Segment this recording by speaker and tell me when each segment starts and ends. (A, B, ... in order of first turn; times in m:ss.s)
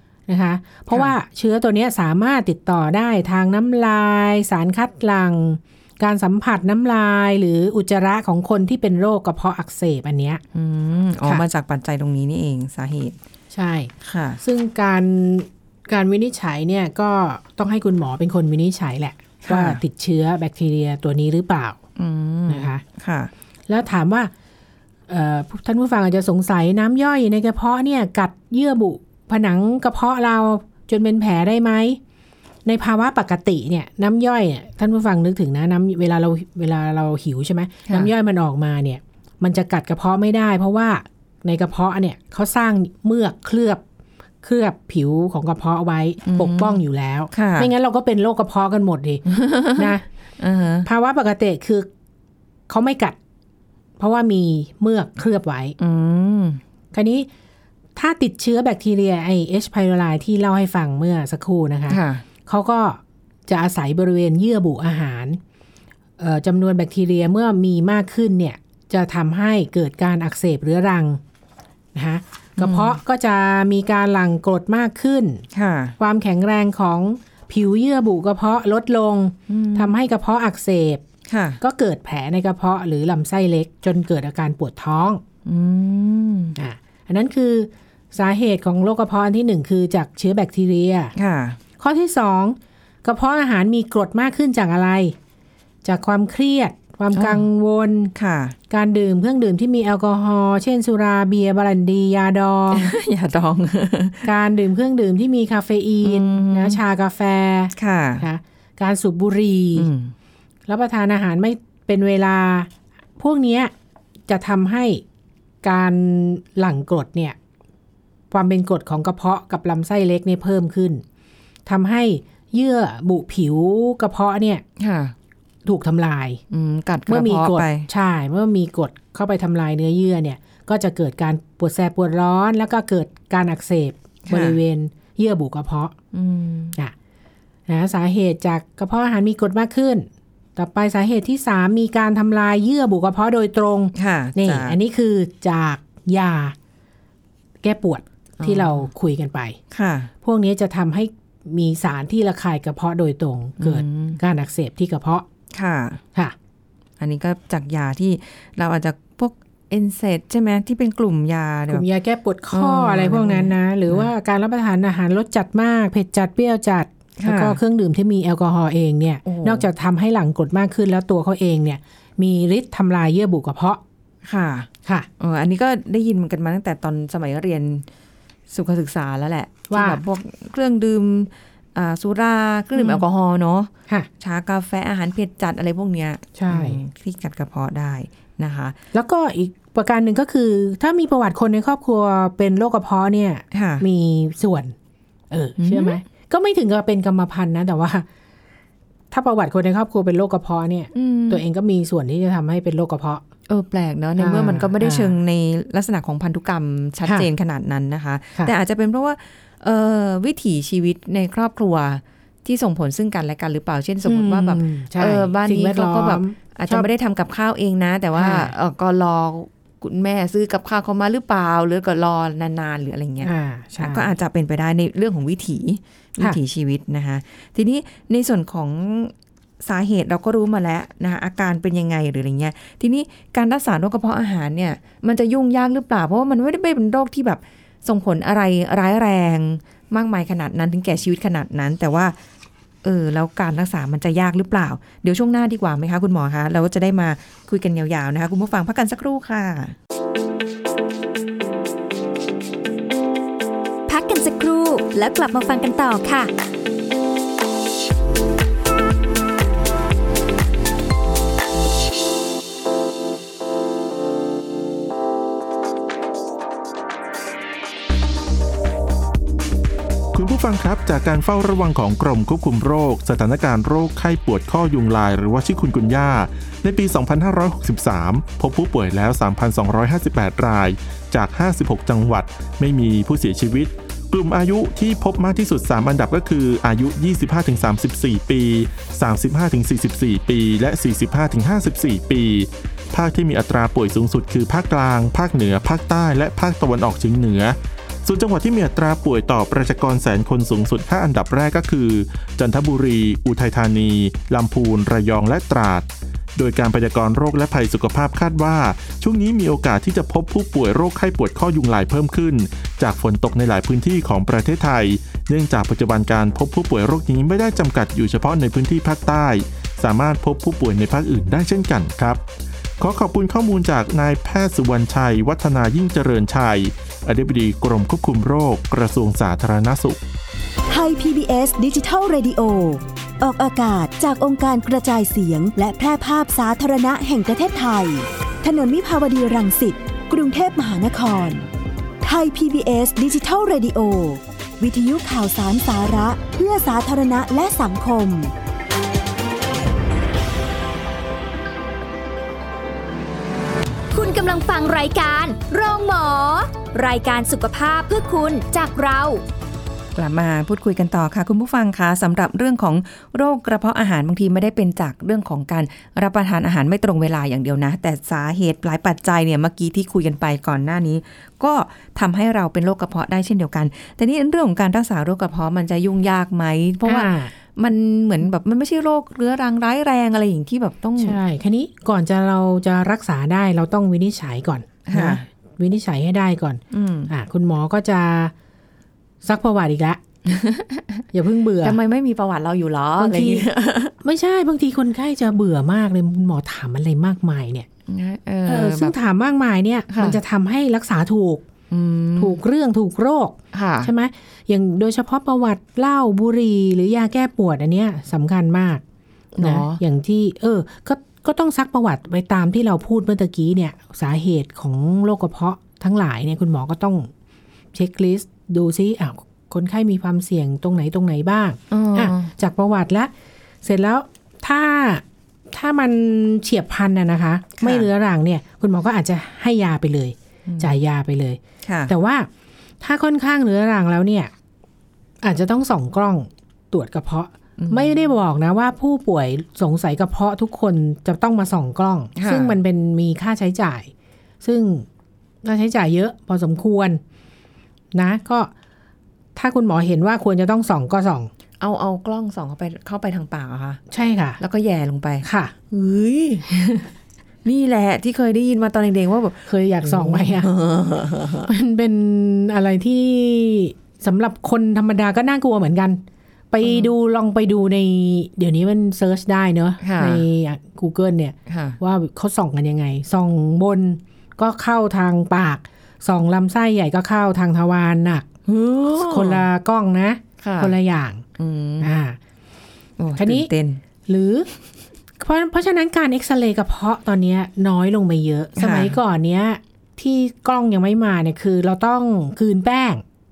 0:00.3-0:10.4 A
0:10.5-0:13.2 B
0:13.5-0:21.8 A
0:14.0-0:14.4 B
0:19.5-0:19.8 B
0:22.0-0:23.3 B
0:22.5-0:22.8 A
0:23.7-0:24.3 A
0:25.1-0:32.0 A
0:32.7-0:43.8 A
0:44.4-0:50.0 A
0:46.2-0:46.8 B
0:47.3-0:47.7 B
0:49.3-0:50.9 B
0:50.8-0:51.9 A
0:52.7-0:53.2 A
0:54.0-0:55.8 A
0:55.8-0:56.6 B
0:56.9-0:57.3 A
0:58.0-1:05.4 A
1:01.9-1:02.2 B
1:06.2-1:11.2 A
1:12.0-1:15.4 A
1:12.6-1:13.0 B
1:15.5-1:16.0 B
1:16.0-1:21.0 A
1:19.5-1:20.0 B
1:21.3-1:21.6 B
1:21.6-1:25.2 A
1:25.4-1:26.6 B
1:26.6-1:31.1 A
1:31.2-1:31.6 B
1:31.8-1:35.2 A
1:35.8-1:38.1 A
1:37.1-1:37.4 B
1:38.2-1:38.6 B
1:38.7-1:43.0 A
1:42.7-1:44.3 B
1:44.2-1:49.9 A
1:46.0-1:46.8 B
1:47.8-1:48.2 B
1:49.8-1:50.1 B
1:50.7-1:53.7 A
1:54.3-1:55.0 A
1:55.6-1:57.4 A
1:58.3-2:01.0 A
2:01.7-2:04.6 A
2:04.8-2:05.2 B
2:05.7-2:06.4 A
2:06.5-2:07.9 B
2:07.1-2:16.0 A
2:14.3-2:14.6 B
2:16.1-2:16.8 B
2:17.7-2:26.6 A
2:23.9-2:24.8 B
2:27.6-2:29.6 A
2:28.4-2:28.9 B
2:29.7-2:30.1 B
2:30.2-2:35.2 A
2:33.6-2:34.2 B
2:35.5-2:36.0 B
2:37.0-2:41.9 B
2:41.7-2:53.8 A
2:42.5-2:44.1 B
2:47.2-2:47.6 B
2:49.2-2:49.7 B
2:54.2-2:57.9 B
2:58.5-3:08.8 B
2:59.7-3:00.0 A
3:02.8-3:03.0 A
3:06.4-3:06.8 A
3:08.9-3:14.7 A
3:13.5-3:13.8 B
3:15.3-3:18.1 A
3:15.6-3:16.0 B
3:19.1-3:23.2 A
3:20.9-3:21.4 B
3:23.5-4:02.2 B
3:24.2-3:25.1 A
3:34.0-3:36.9 A
3:38.2-3:38.6 A
3:43.2-3:44.1 A
4:02.8-4:09.8 B
4:13.9-4:16.3 C
4:30.1-5:22.2 D
5:22.8-5:30.0 D
5:30.7-5:41.5 E
5:42.0-5:48.3 E
5:53.9-5:59.2 C
6:00.0-6:21.2 B
6:16.8-6:17.3 A
6:21.0-6:28.3 A
6:24.9-6:25.3 B
6:26.7-6:27.1 B
6:29.2-6:30.0 A
6:30.2-6:31.0 B
6:31.1-6:31.8 A
6:31.6-6:33.9 B
6:33.0-6:33.4 A
6:34.0-6:37.7 A
6:37.9-6:39.0 B
6:38.5-6:41.4 A
6:39.9-6:40.2 B
6:41.7-6:42.4 B
6:42.2-6:48.8 A
6:43.5-6:43.9 B
6:49.4-6:49.8 B
6:49.4-6:57.1 A
6:57.7-7:03.1 A
7:01.7-7:02.3 B
7:03.6-7:12.3 A
7:07.6-7:07.9 B
7:10.5-7:10.8 B
7:11.6-7:11.9 B
7:12.8-7:14.3 A
7:15.2-7:23.9 A
7:17.6-7:17.9 B
7:22.2-7:22.6 B
7:24.4-7:24.9 A
7:25.4-7:27.0 A
7:27.9-7:28.5 A
7:29.4-7:31.3 A
7:31.6-7:33.8 B
7:33.9-7:34.4 A
7:34.4-7:36.9 B
7:35.2-7:35.5 A
7:37.4-7:41.5 B
7:39.5-7:40.5 A
7:41.5-7:58.3 A
7:46.6-7:46.9 B
7:49.8-7:50.2 B
7:51.5-7:51.8 B
7:58.5-7:59.5 B
7:59.0-8:01.2 A
8:00.4-8:00.8 B
8:01.4-8:01.9 B
8:01.8-8:02.2 A
8:03.0-8:03.8 B
8:03.2-8:03.5 A
8:04.1-8:04.5 A
8:05.2-8:13.0 A
8:08.6-8:09.0 B